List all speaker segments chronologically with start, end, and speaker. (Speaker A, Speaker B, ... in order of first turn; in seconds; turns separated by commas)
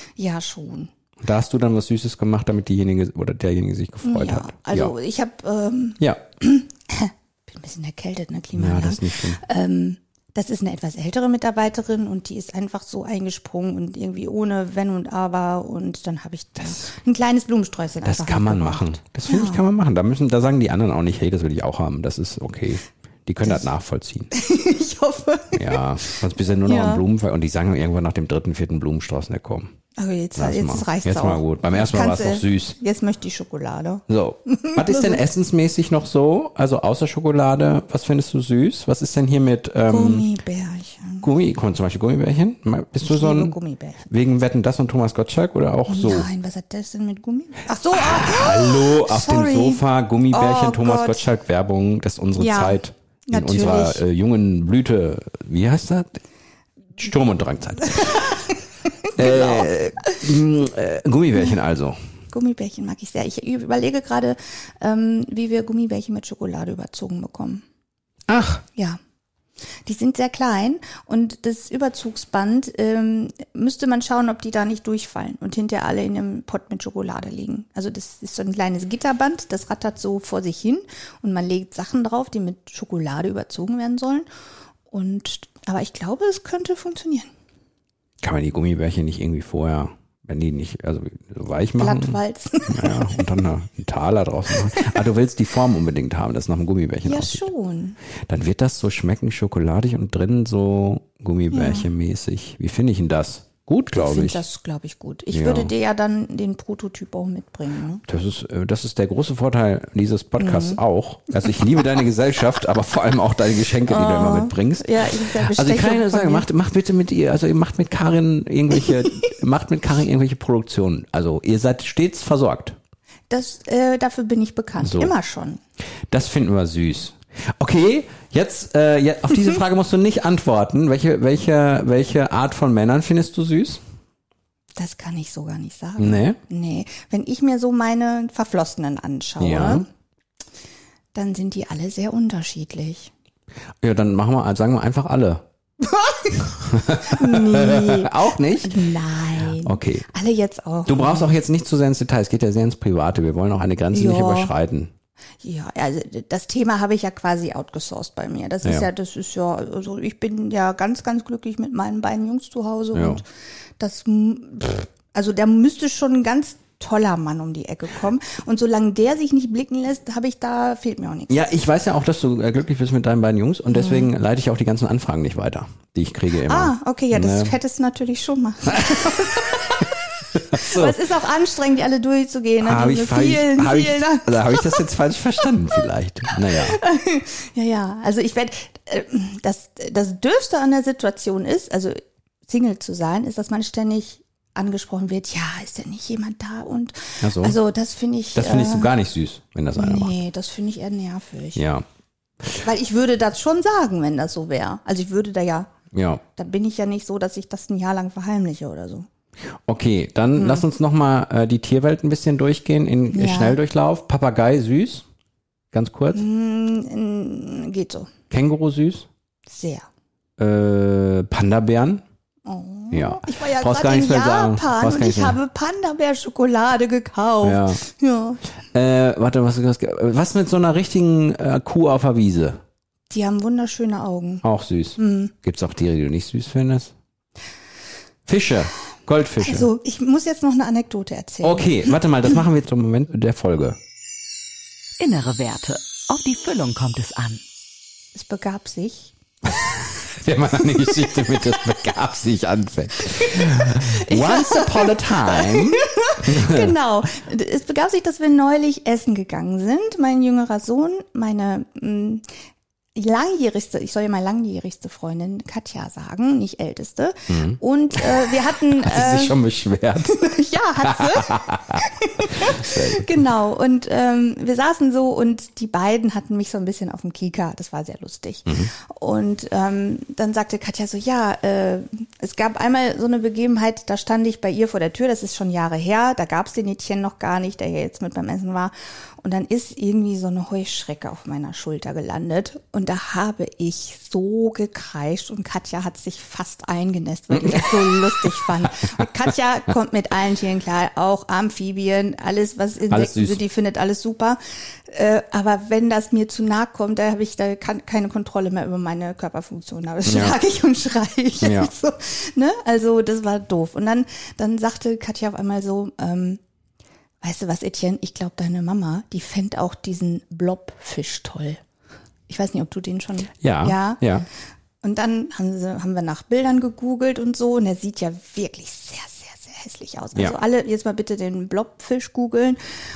Speaker A: 0.2-0.9, Speaker B: 1.2-4.9, Speaker A: 4.0-19.7, Speaker B: 8.6-9.4, Speaker B: 18.0-24.3, Speaker A: 23.4-23.7, Speaker A: 24.3-27.0, Speaker B: 25.5-29.7, Speaker A: 30.0-35.2, Speaker B: 30.4-32.8, Speaker B: 34.1-40.3, Speaker A: 39.9-41.3, Speaker B: 41.2-43.5, Speaker A: 43.0-44.0, Speaker B: 44.1-46.3, Speaker A: 45.9-51.3, Speaker B: 47.9-56.2, Speaker A: 52.4-54.0, Speaker B: 57.0-58.4, Speaker B: 59.1-62.0, Speaker A: 59.2-59.7, Speaker A: 62.3-67.6, Speaker B: 68.3-68.6, Speaker A: 69.8-84.3, Speaker A: 84.9-87.3, Speaker B: 88.2-97.5, Speaker A: 91.8-93.3, Speaker A: 97.0-98.0, Speaker B: 98.3-104.4, Speaker A: 101.5-101.9, Speaker A: 104.0-108.0, Speaker B: 105.3-105.7, Speaker B: 108.1-122.8, Speaker A: 110.4-110.8, Speaker A: 113.9-116.5, Speaker A: 118.8-119.3, Speaker A: 123.3-125.6, Speaker B: 124.8-125.1, Speaker B: 126.1-133.8, Speaker A: 134.8-139.9, Speaker B: 136.0-136.4, Speaker B: 139.4-139.9, Speaker A: 141.1-143.1, Speaker B: 143.8-145.4, Speaker A: 145.8-151.3, Speaker B: 146.6-150.1, Speaker B: 150.9-154.9, Speaker A: 153.9-154.6, Speaker A: 155.4-163.3, Speaker B: 162.9-163.2, Speaker A: 163.8-171.6, Speaker B: 171.3-177.6, Speaker A: 173.7-174.1, Speaker A: 176.4-180.0, Speaker B: 178.7-179.6, Speaker B: 180.3-181.0, Speaker A: 180.5-184.9, Speaker B: 182.6-186.8, Speaker A: 186.3-198.9, Speaker B: 197.2-197.6, Speaker B: 198.3-200.1, Speaker A: 199.8-201.6, Speaker B: 201.6-201.8, Speaker A: 202.6-205.7, Speaker B: 205.9-206.2, Speaker A: 206.3-209.1, Speaker B: 209.7-215.1, Speaker A: 210.3-210.7, Speaker A: 213.1-213.6, Speaker B: 215.7-216.2, Speaker A: 216.1-218.1, Speaker B: 218.3-219.1, Speaker A: 219.5-219.9, Speaker B: 220.4-222.0, Speaker A: 222.4-228.4, Speaker B: 222.9-225.4, Speaker B: 227.4-227.8, Speaker B: 228.7-232.6, Speaker A: 233.1-234.4, Speaker B: 234.4-236.9, Speaker A: 235.0-235.3, Speaker B: 238.3-239.7, Speaker A: 239.4-242.0, Speaker B: 241.4-243.8, Speaker C: 245.0-247.4, Speaker A: 248.1-249.9, Speaker B: 250.0-256.7, Speaker A: 253.0-262.2, Speaker A: 262.9-269.4, Speaker B: 267.3-270.2, Speaker A: 270.1-316.4, Speaker B: 270.9-271.8, Speaker B: 272.3-273.2, Speaker B: 278.5-278.7, Speaker B: 297.4-297.9, Speaker B: 302.9-303.4, Speaker B: 310.1-310.4, Speaker B: 311.4-311.7, Speaker A: 317.2-321.6, Speaker A: 322.3-324.1, Speaker B: 323.4-324.3, Speaker A: 324.8-332.6